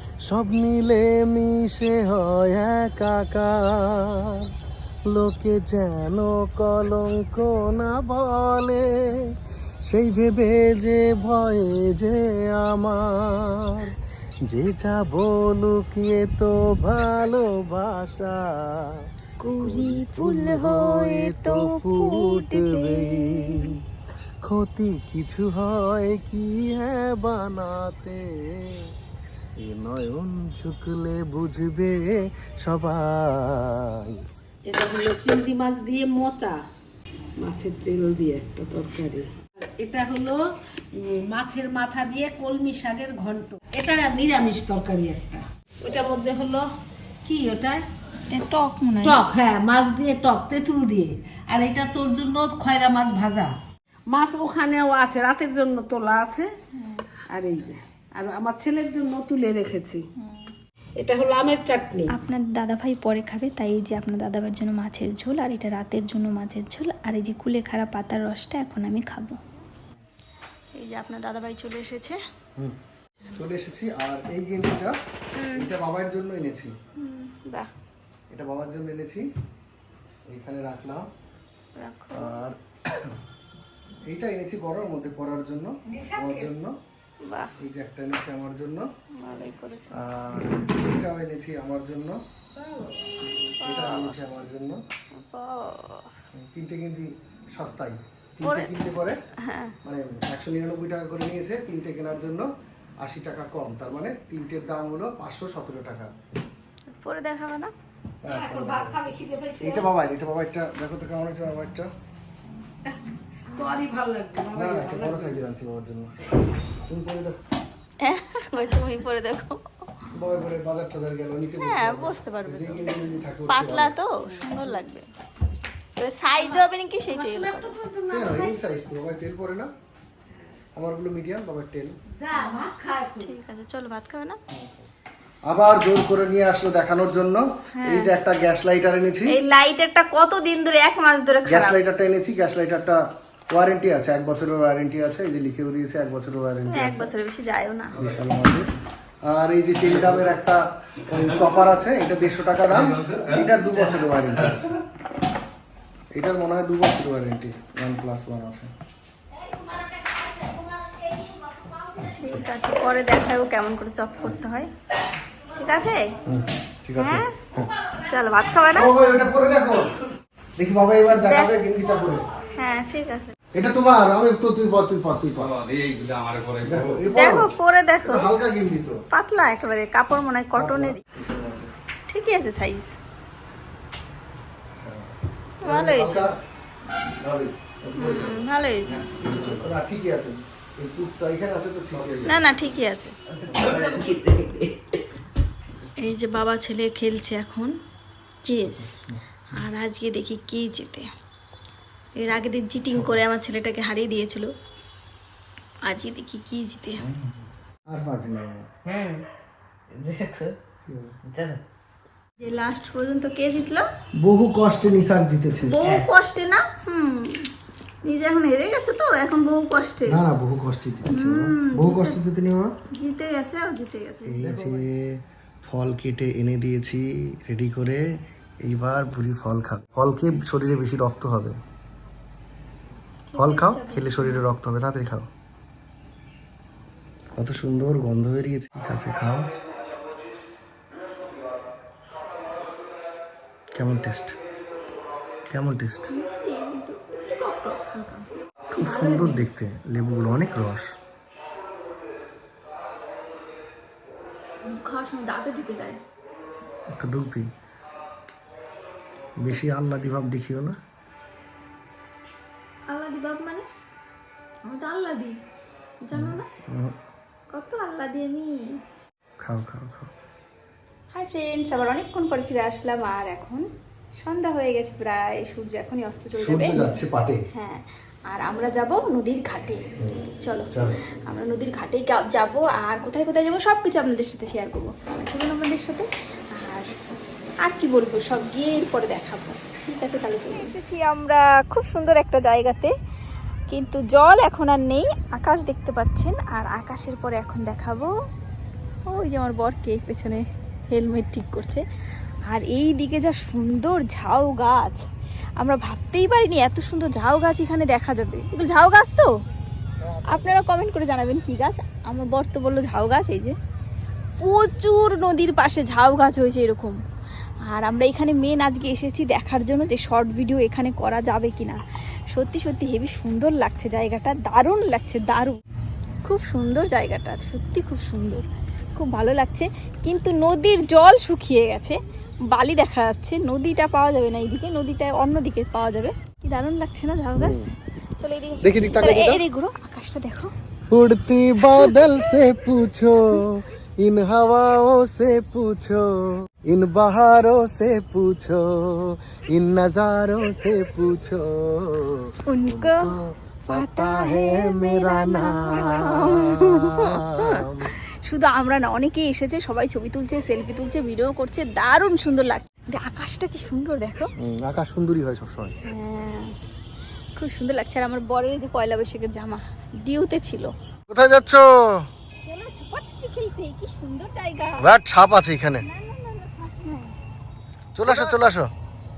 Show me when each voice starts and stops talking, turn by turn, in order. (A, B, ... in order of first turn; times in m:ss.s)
0:00.3-0:04.4 A
0:05.1-0:09.3 A
0:09.9-0:14.0 A
0:14.5-0:18.8 A
0:19.4-0:23.7 B
0:19.6-0:23.7 A
0:24.4-0:28.8 A
0:29.6-0:34.2 A
0:34.6-0:36.6 C
0:37.4-0:40.4 C
0:40.9-0:46.7 C
0:47.2-0:47.8 C
0:48.3-0:49.2 B
0:49.0-0:53.6 C
0:54.1-0:56.5 C
0:56.7-0:57.1 B
0:57.2-1:00.0 C
1:00.2-1:00.5 B
1:01.0-1:02.2 C
1:02.1-1:09.4 B
1:10.8-1:12.2 B
1:13.3-1:14.9 A
1:15.4-1:15.7 B
1:15.5-1:16.7 A
1:17.0-1:17.7 B
1:18.3-1:19.2 A
1:20.3-1:21.0 A
1:21.8-1:22.3 B
1:22.1-1:23.2 A
1:24.1-1:26.7 A
1:25.9-1:26.5 C
1:27.3-1:27.5 B
1:27.6-1:28.9 A
1:29.2-1:29.9 B
1:29.9-1:32.2 A
1:32.6-1:33.1 C
1:33.6-1:34.2 B
1:33.6-1:34.8 A
1:35.2-1:36.1 B
1:36.3-1:39.2 A
1:38.4-1:38.7 B
1:39.4-1:39.8 B
1:39.8-1:42.5 A
1:43.0-1:46.1 A
1:46.9-1:47.7 B
1:48.2-1:49.0 A
1:48.3-1:49.8 C
1:49.6-1:51.9 A
1:53.5-1:55.4 C
1:54.5-1:56.2 A
1:56.9-1:57.3 A
1:58.0-1:59.6 B
2:00.1-2:04.0 A
2:01.6-2:03.0 B
2:03.5-2:05.1 B
2:04.2-2:04.8 C
2:06.0-2:07.8 B
2:06.4-2:08.6 C
2:08.1-2:09.7 A
2:10.8-2:11.9 A
2:12.2-2:13.4 C
2:12.3-2:12.7 B
2:13.2-2:14.4 B
2:14.5-2:14.9 A
2:15.5-2:19.3 A
2:17.8-2:18.1 B
2:19.3-2:21.8 B
2:21.4-2:23.0 A
2:23.5-2:27.1 A
2:26.7-2:27.9 B
2:28.0-2:28.6 A
2:29.3-2:34.8 A
2:29.9-2:30.3 D
2:31.2-2:31.6 D
2:32.7-2:34.6 D
2:36.1-2:38.7 A
2:41.2-2:41.8 C
2:42.0-2:42.4 A
2:42.1-2:44.7 B
2:45.6-2:46.2 B
2:46.2-2:47.7 A
2:47.0-2:47.4 B
2:48.0-2:48.9 B
2:48.7-2:50.0 A
2:50.6-2:52.3 A
2:51.1-2:51.5 B
2:52.5-2:53.3 B
2:53.5-2:55.6 A
2:55.4-2:57.2 D
2:56.6-2:57.5 A
2:57.1-2:58.3 B
2:58.0-2:59.0 A
2:59.1-3:01.0 B
3:00.6-3:01.7 A
3:02.1-3:02.9 B
3:04.8-3:05.1 A
3:05.6-3:06.3 B
3:05.6-3:06.3 A
3:07.2-3:08.4 A
3:08.0-3:09.2 B
3:09.0-3:09.6 D
3:09.2-3:12.5 A
3:12.0-3:12.7 D
3:12.2-3:13.2 B
3:13.3-3:15.0 E
3:13.5-3:13.7 A
3:13.7-3:13.9 D
3:16.0-3:17.7 B
3:18.4-3:18.9 B
3:18.6-3:19.6 A
3:19.5-3:21.1 B
3:22.2-3:24.5 B
3:22.9-3:23.2 A
3:25.9-3:27.0 B
3:27.0-3:27.4 A
3:27.9-3:28.7 A
3:28.8-3:29.2 E
3:29.9-3:30.6 E
3:30.9-3:31.1 A
3:31.2-3:31.6 E
3:32.4-3:33.8 B
3:34.2-3:35.8 A
3:35.7-3:37.5 B
3:35.8-3:36.1 E
3:38.0-3:40.2 B
3:40.1-3:42.7 A
3:41.1-3:42.2 B
3:42.9-3:44.8 B
3:44.2-3:45.1 A
3:45.6-3:48.0 A
3:48.6-3:51.6 A
3:53.3-3:54.4 B
3:53.4-3:55.3 A
3:57.3-3:59.5 A
4:03.8-4:04.3 A
4:05.5-4:06.1 A
4:06.1-4:09.4 B
4:08.8-4:10.8 A
4:14.6-4:16.0 B
4:17.0-4:17.5 A
4:19.4-4:20.8 A
4:22.9-4:23.6 B
4:24.6-4:25.4 B
4:26.0-4:26.4 B
4:26.1-4:26.9 A
4:27.5-4:28.6 B
4:29.4-4:30.1 A
4:31.1-4:33.6 B
4:34.2-4:37.0 B
4:36.4-4:37.4 A
4:37.5-4:46.1 B
4:40.0-4:41.0 A
4:46.6-4:46.9 B
4:47.6-4:52.9 B
4:53.7-4:58.1 B
4:59.1-5:01.8 B
5:02.5-5:05.0 B
5:05.6-5:09.3 B
5:10.0-5:10.6 A
5:10.3-5:13.6 B
5:14.4-5:16.9 B
5:17.7-5:21.8 B
5:22.3-5:25.6 B
5:26.2-5:28.4 B
5:29.0-5:32.0 B
5:32.5-5:37.6 B
5:37.4-5:37.7 A
5:38.2-5:40.5 B
5:38.6-5:39.4 A
5:40.9-5:46.1 A
5:46.7-5:57.9 A
5:52.5-5:53.1 B
5:53.7-5:57.6 B
5:58.2-6:04.3 B
6:04.4-6:05.7 A
6:05.9-6:06.5 B
6:07.4-6:10.7 B
6:11.1-6:11.6 A
6:12.4-6:14.8 B
6:14.8-6:15.8 A
6:15.8-6:17.1 B
6:18.0-6:18.7 A
6:18.0-6:18.4 B